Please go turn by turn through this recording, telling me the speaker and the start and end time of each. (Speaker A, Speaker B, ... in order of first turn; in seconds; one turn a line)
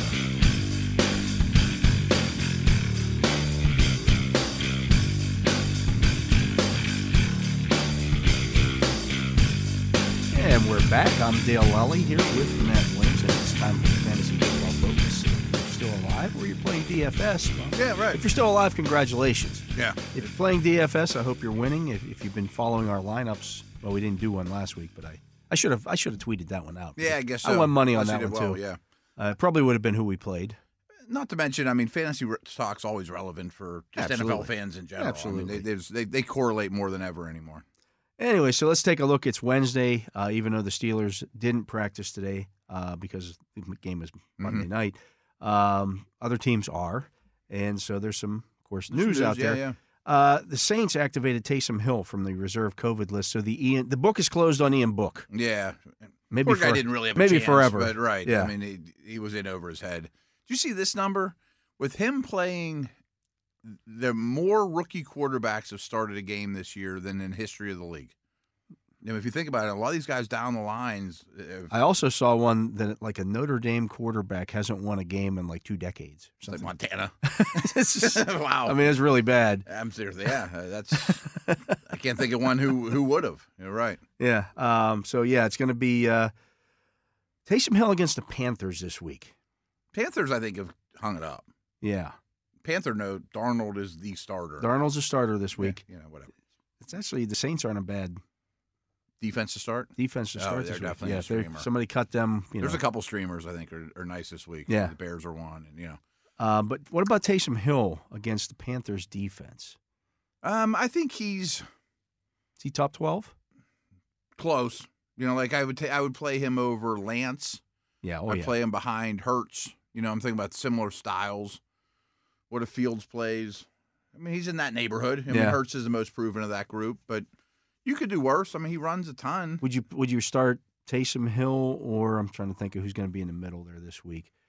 Speaker A: 10.3-28.6
Speaker B: 17.8-18.2
Speaker B: 19.8-20.1
Speaker B: 27.0-28.8
Speaker A: 29.2-30.6
Speaker B: 31.1-37.6
Speaker A: 34.0-35.7
Speaker A: 38.2-55.3
Speaker B: 44.4-44.7
Speaker B: 48.9-49.8
Speaker B: 55.3-62.9
Speaker A: 56.3-58.5
Speaker B: 63.6-68.2
Speaker B: 69.0-71.7
Speaker A: 71.7-76.7
Speaker B: 76.5-78.9
Speaker A: 77.2-79.7
Speaker B: 79.7-84.0
Speaker A: 81.0-81.8
Speaker A: 84.2-86.3
Speaker A: 87.5-89.3
Speaker B: 89.9-91.5
Speaker A: 91.8-92.2
Speaker B: 92.6-94.7
Speaker A: 94.6-95.8
Speaker B: 95.6-96.3
Speaker A: 96.8-98.2
Speaker B: 99.2-101.7
Speaker A: 100.0-102.8
Speaker B: 102.6-106.0
Speaker A: 104.7-104.9
Speaker A: 106.4-109.8
Speaker B: 110.4-111.7
Speaker A: 112.6-113.3
Speaker B: 114.4-117.6
Speaker A: 118.0-118.5
Speaker B: 118.3-121.6
Speaker B: 122.5-127.3
Speaker A: 125.3-125.6
Speaker B: 127.8-129.6
Speaker A: 129.6-134.3